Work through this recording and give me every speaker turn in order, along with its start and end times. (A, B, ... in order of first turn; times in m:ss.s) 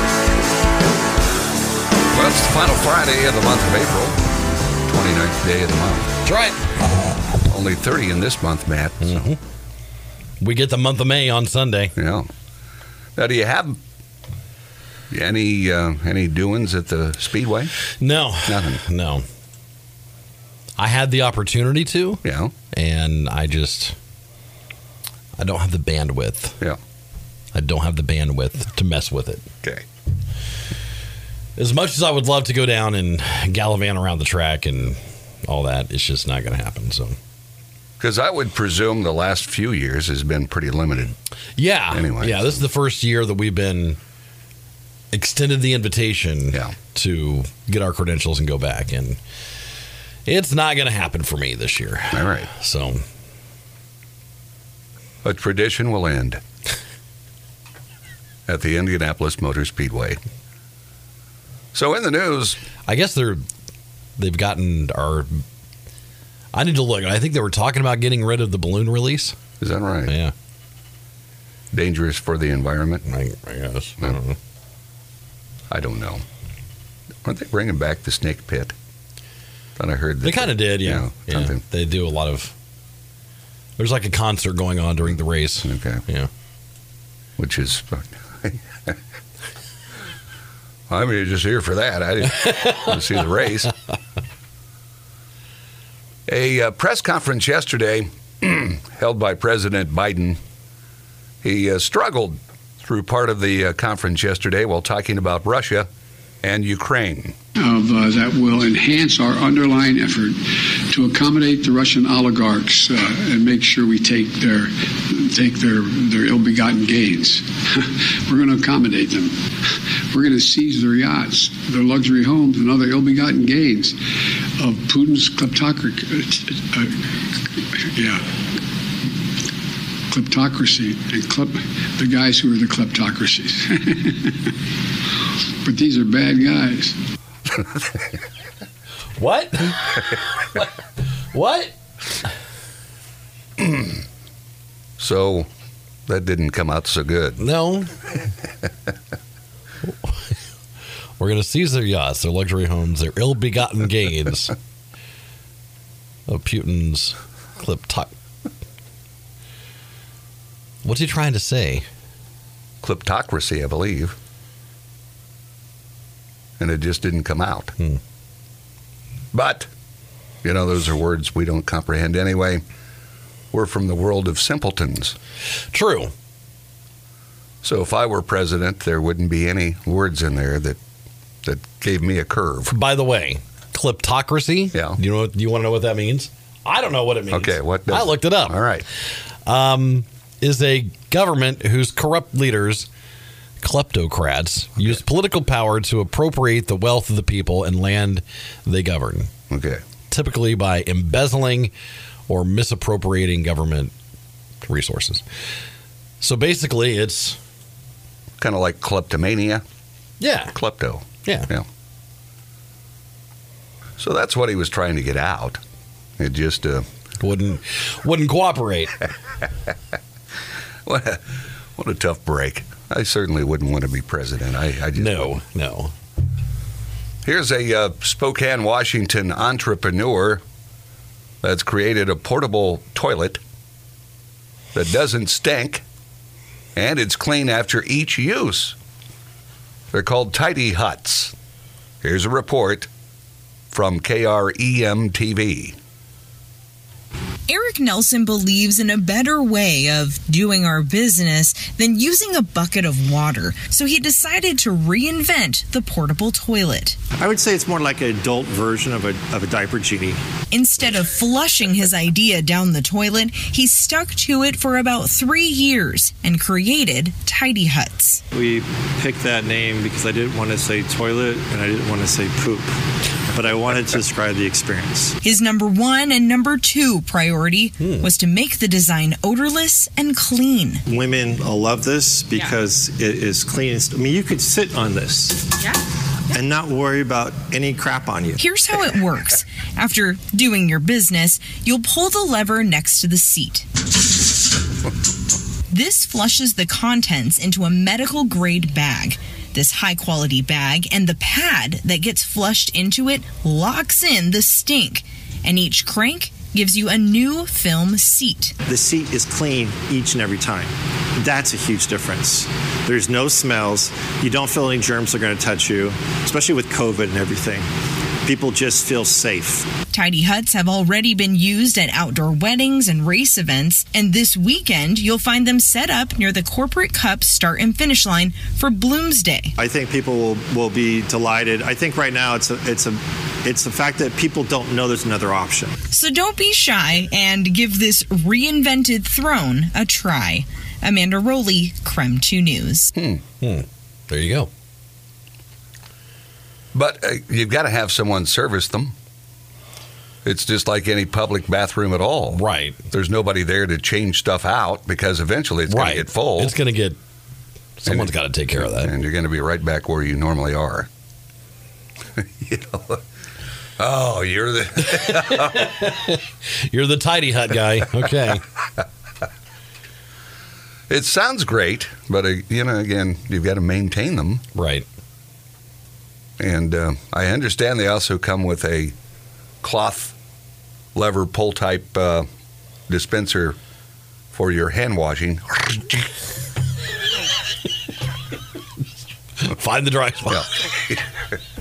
0:02.1-0:04.2 A
0:04.9-0:06.1 A
0:06.3-0:06.6 B
0:07.5-0:09.3 A
0:09.0-0:09.4 B
0:10.4-0:11.9 B
0:12.0-0:12.3 A
0:13.2-0:13.8 A
0:15.1-0:17.7 A
0:18.0-0:19.2 B
0:18.4-0:18.8 A
0:20.8-0:24.0 B
0:22.2-0:22.5 A
0:25.4-0:26.6 B
0:27.5-0:29.4 B
0:31.6-0:37.2 B
0:38.0-0:41.2 A
0:41.6-0:44.0 B
0:41.9-0:42.6 A
0:45.1-0:49.2 B
0:50.3-0:53.0 B
0:52.1-0:52.5 A
0:55.2-0:56.4 A
0:58.5-1:00.2 A
1:01.7-1:02.6 A
1:02.9-1:03.4 B
1:04.2-1:05.4 B
1:06.5-1:09.4 B
1:09.6-1:10.2 A
1:10.1-1:10.3 B
1:11.7-1:13.0 A
1:13.0-1:14.4 B
1:15.7-1:16.2 A
1:17.2-1:18.7 A
1:19.8-1:21.6 A
1:20.2-1:22.5 B
1:23.8-1:26.3 B
1:25.6-1:26.0 A
1:27.4-1:29.0 A
1:30.9-1:33.7 A
1:36.3-1:40.4 A
1:41.4-1:45.9 A
1:46.4-1:47.4 A
1:47.6-1:50.4 C
1:50.9-1:59.4 C
2:00.1-2:04.0 C
2:04.6-2:07.0 C
2:07.6-2:08.2 C
2:10.1-2:14.6 C
2:15.6-2:17.0 C
2:19.2-2:20.8 B
2:21.3-2:21.7 B
2:25.0-2:25.5 A
2:26.1-2:27.4 A
2:27.4-2:27.9 B
2:29.9-2:30.3 B
2:31.2-2:34.6 B
2:36.3-2:38.1 B
2:40.8-2:41.8 B
2:42.8-2:44.2 A
2:46.6-2:47.7 A
2:49.3-2:49.7 A
2:50.4-2:52.6 A
2:53.5-2:55.2 A
2:55.7-2:56.1 B
2:57.6-3:00.8 A
3:01.4-3:02.7 A
3:02.7-3:08.6 B
3:07.3-3:08.9 A
3:09.5-3:12.9 B
3:13.6-3:19.3 B
3:19.5-3:19.8 A
3:20.1-3:21.7 B
3:22.3-3:23.9 B
3:24.6-3:25.2 B
3:26.2-3:27.4 B
3:28.4-3:29.6 A
3:30.2-3:30.6 B
3:30.5-3:31.6 A
3:31.2-3:31.5 B
3:34.0-3:35.6 A
3:36.2-3:36.8 A
3:37.2-3:39.0 B
3:40.9-3:41.2 A
3:41.8-3:45.3 A
3:45.0-3:45.9 B
3:47.2-3:50.4 A
3:51.4-3:53.4 A
3:54.7-3:55.8 A
3:56.8-3:58.8 A
3:59.9-4:01.3 A
4:02.0-4:02.9 A
4:03.7-4:05.8 A
4:07.5-4:17.0 D
4:17.2-4:20.2 E
4:20.5-4:28.2 D
4:28.3-4:32.7 E
4:33.3-4:35.2 E
4:35.2-4:40.8 D
4:40.9-4:45.6 E
4:46.3-4:48.4 E
4:48.4-4:53.7 D
4:55.7-5:08.6 D
5:08.7-5:17.7 E
5:18.2-5:19.7 E
5:19.9-5:29.5 D
5:29.6-5:35.8 E
5:35.9-5:42.9 D
5:43.0-5:43.2 A
5:43.4-5:44.5 B
5:46.7-5:48.9 A
5:50.2-5:56.5 A
5:52.3-5:52.8 B
5:55.7-5:57.0 B
5:57.8-5:58.9 B
5:57.9-5:58.1 A
5:58.8-6:00.9 A
6:02.2-6:03.0 A
6:03.8-6:05.7 A
6:04.9-6:08.4 B
6:10.9-6:14.4 A
6:14.6-6:14.9 B
6:16.4-6:19.0 A
6:19.6-6:20.2 A
6:21.0-6:22.3 A
6:22.9-6:23.6 A
6:24.3-6:26.1 A
6:29.4-6:30.5 B
6:30.3-6:31.0 A